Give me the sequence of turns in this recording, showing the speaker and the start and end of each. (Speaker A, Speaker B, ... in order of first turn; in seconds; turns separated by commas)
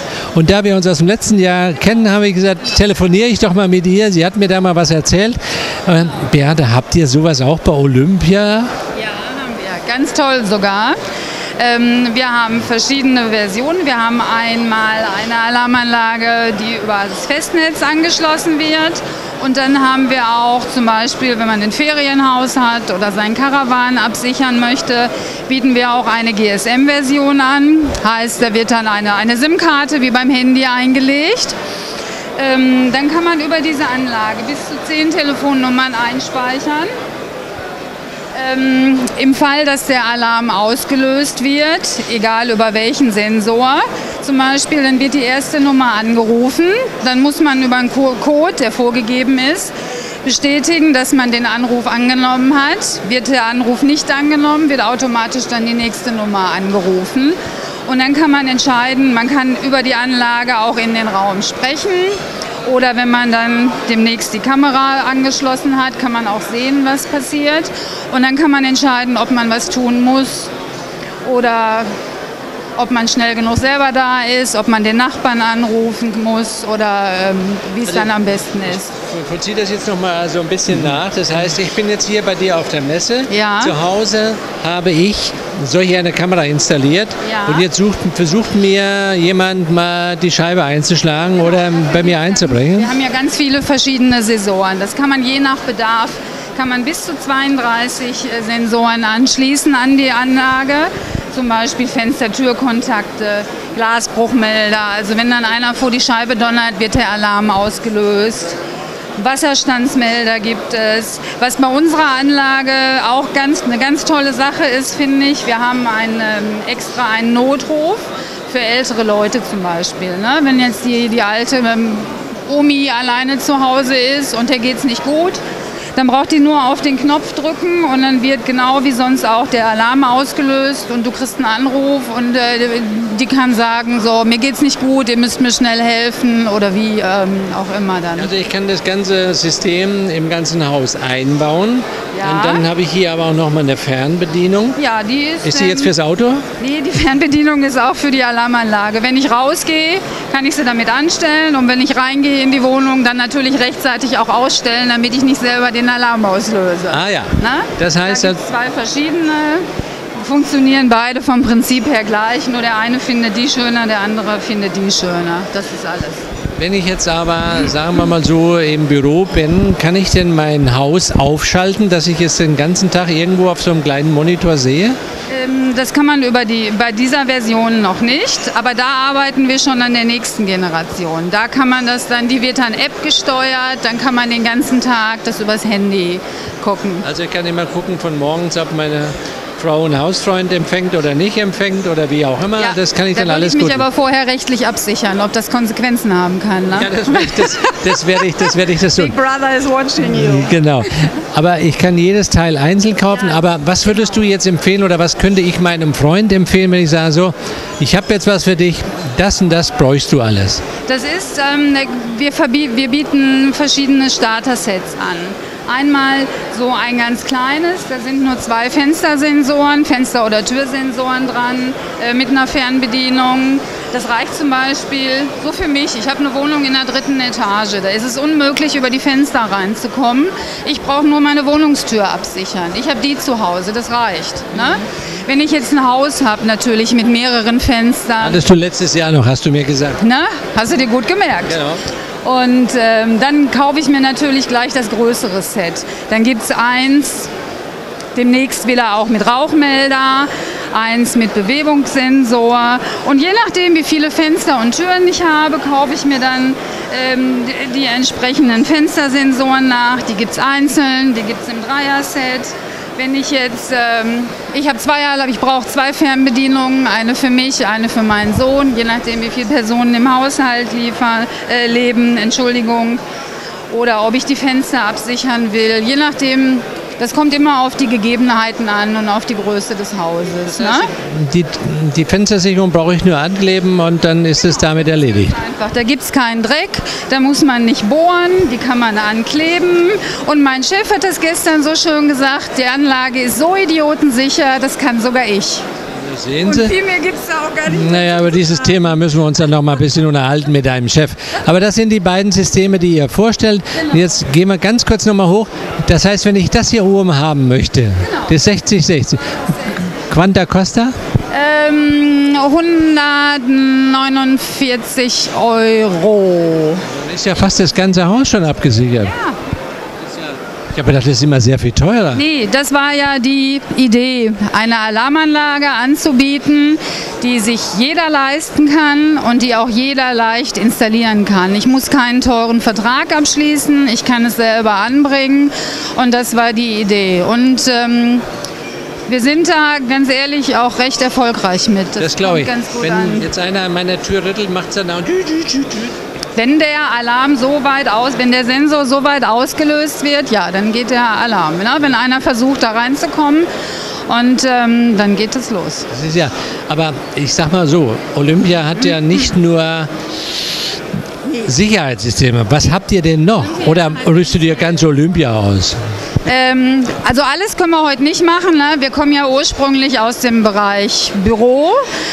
Speaker A: 0.3-8.7, Speaker B: 8.9-11.0, Speaker B: 11.6-31.6, Speaker B: 32.4-36.9, Speaker B: 38.3-70.5, Speaker B: 71.2-71.9, Speaker B: 72.8-78.9, Speaker A: 77.9-78.3, Speaker A: 78.9-92.9, Speaker B: 83.3-83.8, Speaker B: 87.2-87.7, Speaker B: 91.6-108.6, Speaker B: 109.2-125.4, Speaker B: 126.0-138.3, Speaker A: 138.2-144.8, Speaker B: 142.2-142.7, Speaker B: 144.8-145.9, Speaker A: 145.4-146.5, Speaker B: 146.6-166.2, Speaker A: 156.9-158.4, Speaker A: 166.6-175.0, Speaker B: 175.3-187.1, Speaker A: 187.0-193.8, Speaker B: 192.6-198.2, Speaker A: 196.8-199.2, Speaker B: 198.8-201.1, Speaker A: 200.0-210.6, Speaker B: 210.9-238.4, Speaker A: 238.2-240.0, Speaker B: 240.0-241.6, Speaker A: 241.5-241.8, Speaker B: 242.2-247.3, Speaker B: 248.2-273.0, Speaker B: 273.7-280.9, Speaker A: 280.5-285.4, Speaker B: 285.0-295.6, Speaker A: 296.0-296.8, Speaker B: 296.4-298.8, Speaker A: 297.6-310.9, Speaker B: 308.0-308.6, Speaker B: 309.3-309.9, Speaker B: 311.3-316.9, Speaker A: 316.9-319.1, Speaker B: 319.0-319.4, Speaker A: 320.7-322.2, Speaker B: 322.1-338.2, Speaker B: 339.1-343.3, Speaker A: 342.0-345.9, Speaker B: 346.4-353.5, Speaker B: 354.1-355.9, Speaker A: 355.9-359.9, Speaker A: 361.4-365.8, Speaker B: 363.4-364.9, Speaker B: 366.2-371.9